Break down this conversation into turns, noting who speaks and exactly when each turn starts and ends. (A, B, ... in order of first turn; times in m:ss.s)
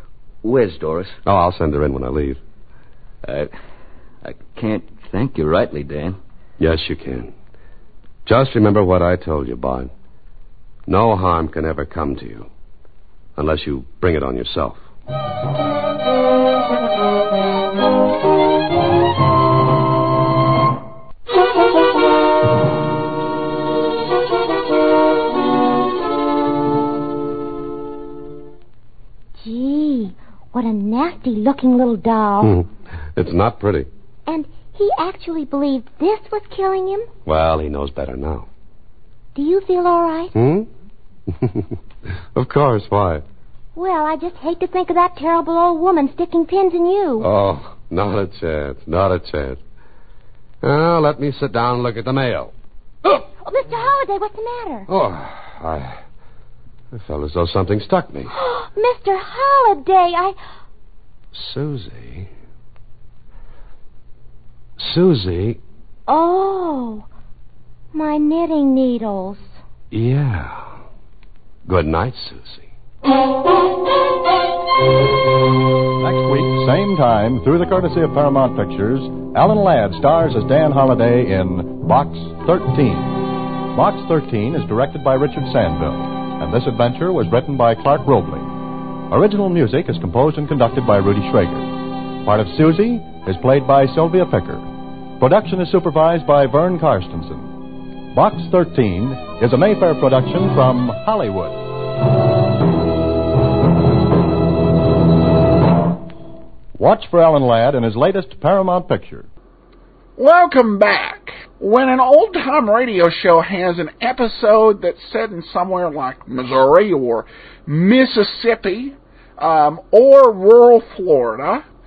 0:00.4-0:01.2 A
0:01.2-0:02.4 B
0:03.2-0:03.5 A
0:04.2-0:06.2 A
0:06.6-0:07.3 B
0:08.2-0:09.9 B
0:10.9-0:12.5 B
0:13.4-0:14.8 B
0:29.4-0:32.6 C
0:32.4-0:33.9 B
0:34.3-0:37.1 C
0:37.3-0:38.5 B
0:39.4-0:40.4 C
0:40.3-0:40.7 B
0:41.3-0:41.8 B
0:42.3-0:43.2 B
0:43.8-0:47.3 C
0:47.2-0:49.6 B
0:50.6-0:52.5 B
0:53.1-0:54.9 C
0:54.9-0:56.0 B
0:56.9-0:58.3 B
0:58.3-1:00.4 C
1:01.3-1:02.3 B
1:04.8-1:05.6 B
1:06.1-1:07.1 C
1:07.9-1:09.6 C
1:09.9-1:10.8 B
1:11.6-1:12.7 B
1:16.0-1:28.5 D
1:29.1-1:34.7 D
1:35.2-1:37.5 D
1:38.1-1:41.6 D
1:46.8-1:49.3 D
1:50.2-2:01.7 E